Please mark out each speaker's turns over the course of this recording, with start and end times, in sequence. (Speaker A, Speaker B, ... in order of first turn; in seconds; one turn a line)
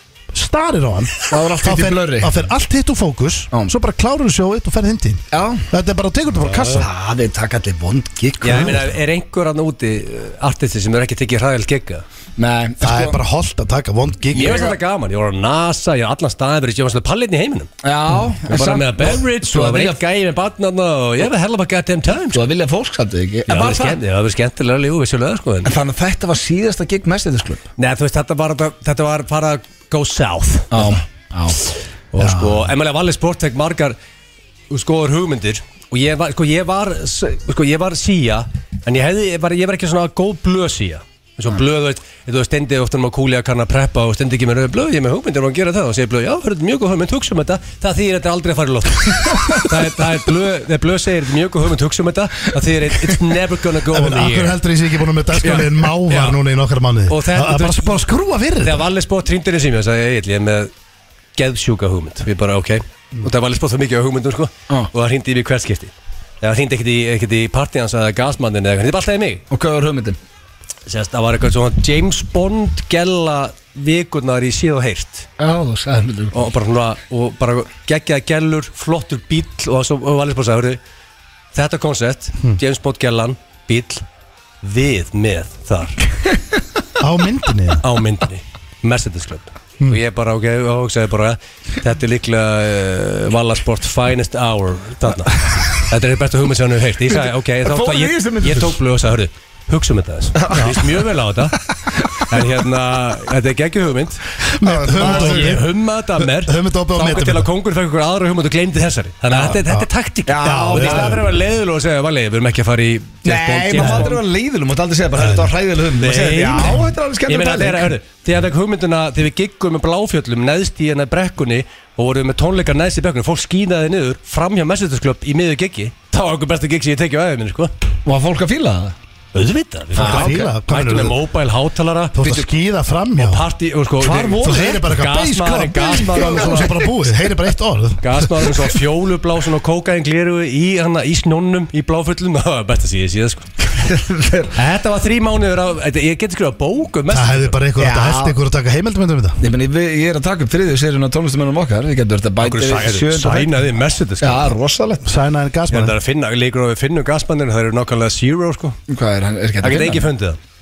Speaker A: 0.3-6.9
Speaker B: 1.3-2.3
Speaker B: 5.3-5.7
Speaker B: 6.8-8.9
Speaker C: 8.4-12.0
Speaker B: 12.4-13.2
Speaker A: 12.8-14.6
Speaker B: 14.3-14.8
Speaker C: 14.3-17.7
Speaker B: 17.8-20.0
Speaker C: 18.5-22.4
Speaker B: 22.3-24.0
Speaker C: 23.5-25.7
Speaker B: 25.6-27.6
Speaker C: 27.8-31.0
Speaker B: 30.7-31.6
Speaker C: 32.1-34.0
Speaker A: 32.2-32.7
Speaker C: 34.7-54.6
Speaker A: 53.9-58.9
Speaker C: 55.4-56.4
Speaker C: 57.1-58.0
Speaker C: 58.6-60.7
Speaker C: 61.4-69.4
Speaker B: 69.5-70.2
Speaker C: 70.9-75.3
Speaker B: 75.4-76.4
Speaker C: 76.3-80.8
Speaker C: 81.5-84.0
Speaker C: 84.6-86.0
Speaker A: 87.0-87.8
Speaker C: 87.8-101.6
Speaker B: 97.6-98.8
Speaker B: 100.4-100.7
Speaker C: 102.1-104.2
Speaker A: 104.5-105.7
Speaker B: 104.6-105.6
Speaker C: 104.9-114.2
Speaker A: 106.2-107.5
Speaker A: 109.4-109.9
Speaker B: 110.3-111.2
Speaker A: 110.4-111.3
Speaker B: 113.2-117.9
Speaker A: 113.8-114.1
Speaker A: 115.2-115.5
Speaker C: 116.0-127.7
Speaker B: 128.1-128.9
Speaker C: 129.3-132.2
Speaker B: 130.0-130.5
Speaker A: 130.0-131.2
Speaker A: 132.2-133.4
Speaker C: 133.2-136.8
Speaker A: 134.1-138.5
Speaker B: 134.1-134.6
Speaker B: 136.2-136.6
Speaker C: 138.0-143.5
Speaker B: 143.7-144.5
Speaker C: 144.6-147.6
Speaker A: 147.1-149.4
Speaker B: 147.8-148.4
Speaker B: 149.4-153.5
Speaker C: 152.4-154.5
Speaker B: 154.2-155.0
Speaker A: 155.0-155.9
Speaker C: 155.7-158.8
Speaker B: 158.9-160.1
Speaker C: 159.6-160.4